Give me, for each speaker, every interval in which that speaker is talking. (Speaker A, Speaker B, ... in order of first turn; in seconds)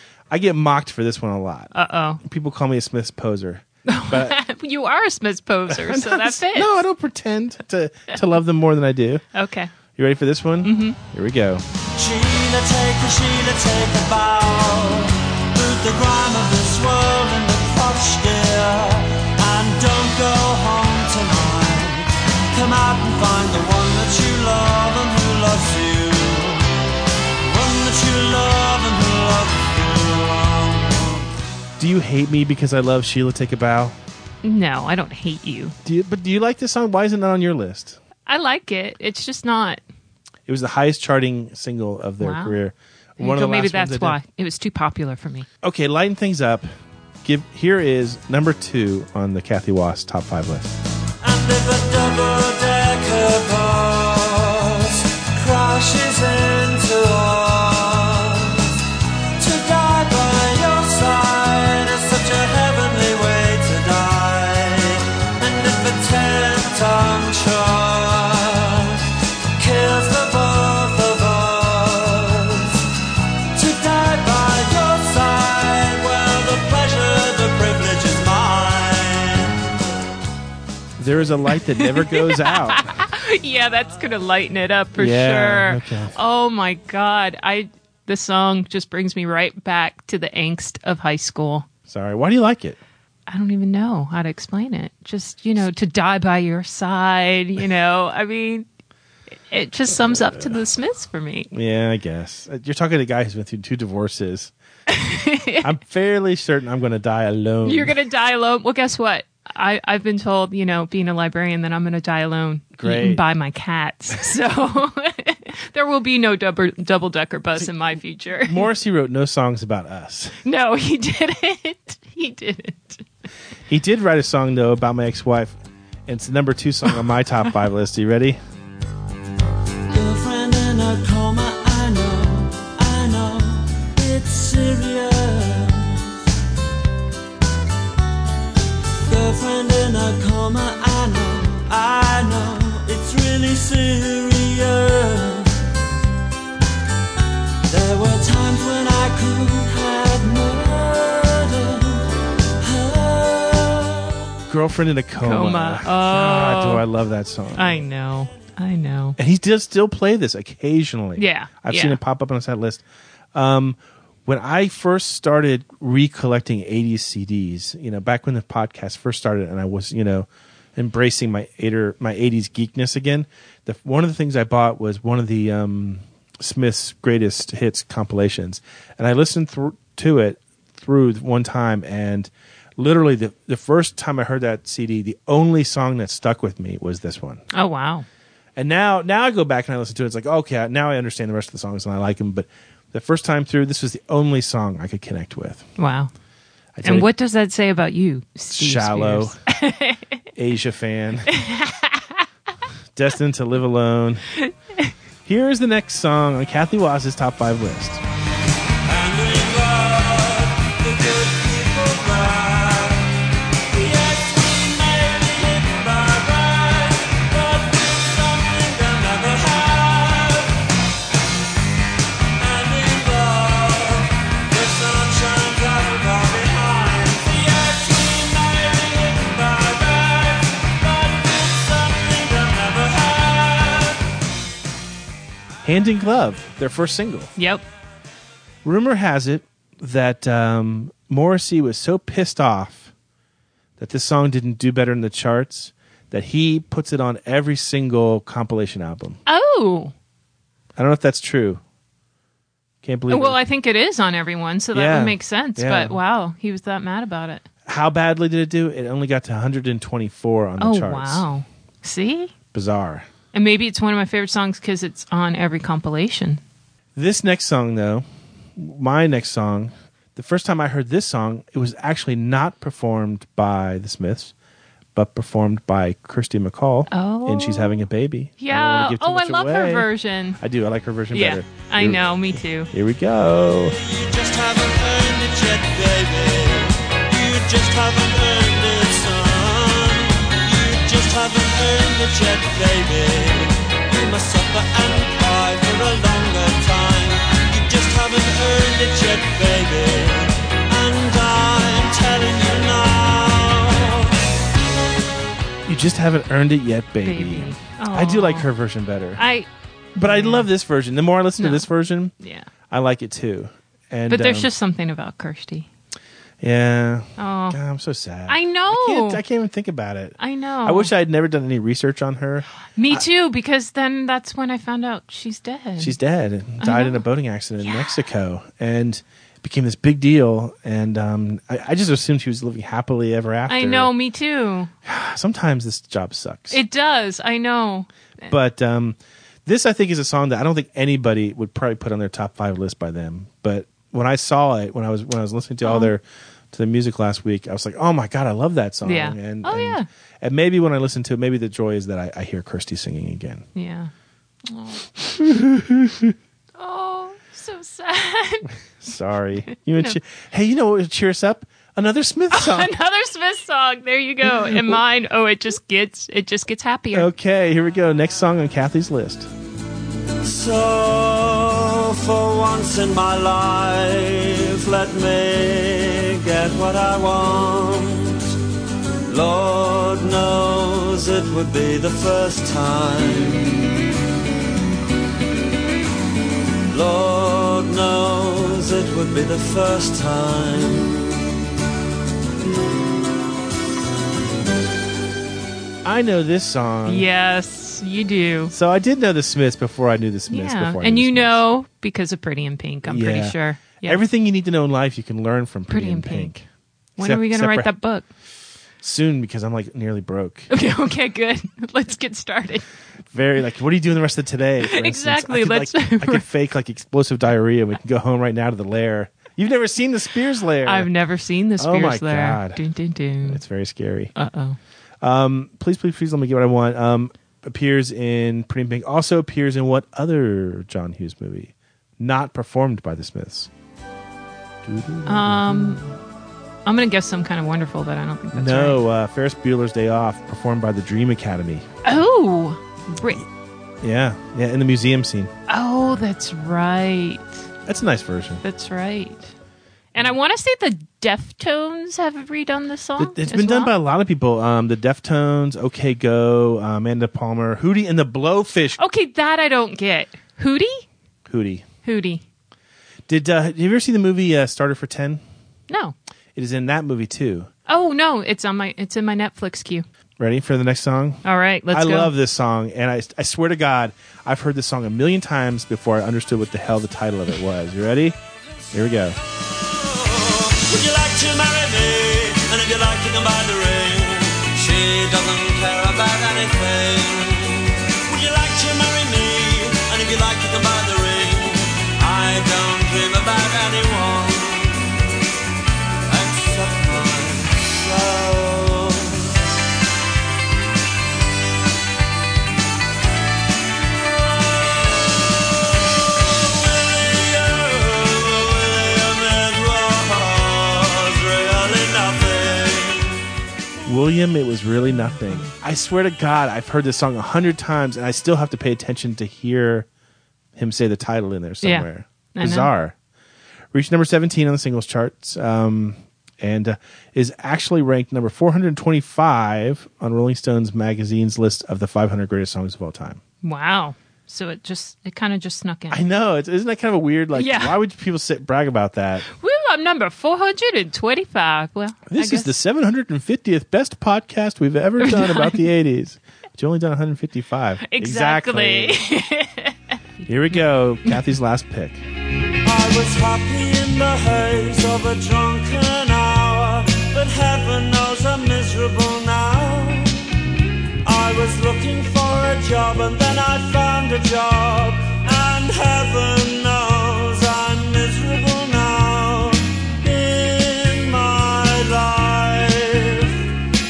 Speaker A: 0.3-4.4, 5.7-9.2, 9.9-11.6, 31.8-34.0, 35.9-38.0, 40.5-44.2, 45.6-46.7, 47.2-50.7, 81.0-83.0, 85.0-86.2, 91.9-92.8, 99.9-100.6, 101.5-104.5, 105.6-108.0, 112.8-113.2, 118.4-120.4, 123.7-128.4, 154.5-157.8, 159.2-162.8, 163.3-187.4, 188.6-195.7, 196.8-197.1, 198.5-199.4, 200.4-201.3, 202.9-204.2, 205.2-208.0, 235.6-237.3, 238.7-242.9, 243.8-249.2, 250.8-251.6, 252.8-253.4, 254.7-256.0, 257.7-261.2, 262.5-263.1, 267.0-268.1, 268.6-274.3, 274.9-283.8, 305.7-309.2, 310.0-312.1, 312.7-314.5, 316.4-323.1, 325.8-333.9, 334.9-336.6, 338.3-353.5, 355.2-356.1, 358.8-362.7, 364.2-364.8, 366.9-369.3, 395.9-397.1, 398.5-401.4, 402.9-406.4, 407.0-407.7, 408.8-410.5, 413.1-420.9, 421.6-422.6, 423.2-424.1, 425.0-433.5, 434.6-435.9, 438.3-441.6, 443.8-445.3, 447.7-448.4, 453.0-458.8, 461.3-461.7, 463.1-465.2, 466.4-467.5, 470.2-478.2, 478.7-479.2, 513.9-519.9, 520.6-522.9, 523.7-533.2, 535.9-539.3, 542.1-549.0, 550.3-552.0
Speaker B: 1.7-2.2, 3.9-6.7, 9.3-9.7, 10.6-11.0, 34.4-35.8, 38.3-39.8, 42.2-42.6, 43.2-45.5, 81.8-91.7, 93.3-98.7, 99.5-101.5, 104.9-105.7, 107.7-118.7, 120.5-123.0, 155.2-156.8, 157.6-159.2, 161.2-162.0, 187.5-188.1, 195.8-196.1, 196.8-200.2, 201.3-202.2, 204.4-204.9, 237.4-237.6, 249.3-249.9, 253.1-257.4, 260.6-262.3, 263.3-266.4, 276.9-277.9, 278.4-280.4, 281.1-282.7, 307.0-308.5, 309.2-309.5, 310.0-310.5, 311.4-311.7, 312.2-312.5, 314.1-315.7, 317.2-317.6, 318.3-319.2, 320.2-320.9, 322.8-326.0, 326.6-327.0, 327.6-328.0, 333.5-334.7, 336.5-338.3, 345.6-345.9, 348.8-349.9, 353.6-353.9, 354.5-354.9, 356.6-358.5, 359.5-360.0, 362.3-367.1, 396.9-398.5, 400.3-404.0, 405.7-406.4, 407.0-408.1, 410.5-412.6, 414.6-416.2, 420.6-423.4, 424.2-424.6, 435.1-435.9, 436.6-438.8, 441.9-443.2, 445.5-447.5, 448.4-449.3, 449.9-453.7, 458.8-460.9, 461.8-462.2, 465.7-465.9, 467.7-469.9, 471.2-472.1, 515.0-515.5, 521.6-522.7, 533.4-536.0, 537.4-537.8, 539.4-542.5, 545.0-545.6, 547.8-549.8
Speaker C: 12.0-26.7, 27.4-31.3, 51.2-58.7, 59.4-69.0, 69.6-72.8, 73.5-79.7, 129.9-136.1, 139.1-145.6, 147.7-152.1, 152.6-154.1, 208.9-213.1, 213.7-220.6, 222.4-234.0, 283.7-304.2, 370.2-378.4, 379.1-383.7, 386.7-391.1, 479.9-494.9, 496.1-499.4, 506.4-513.2, 552.6-560.3, 561.0-573.4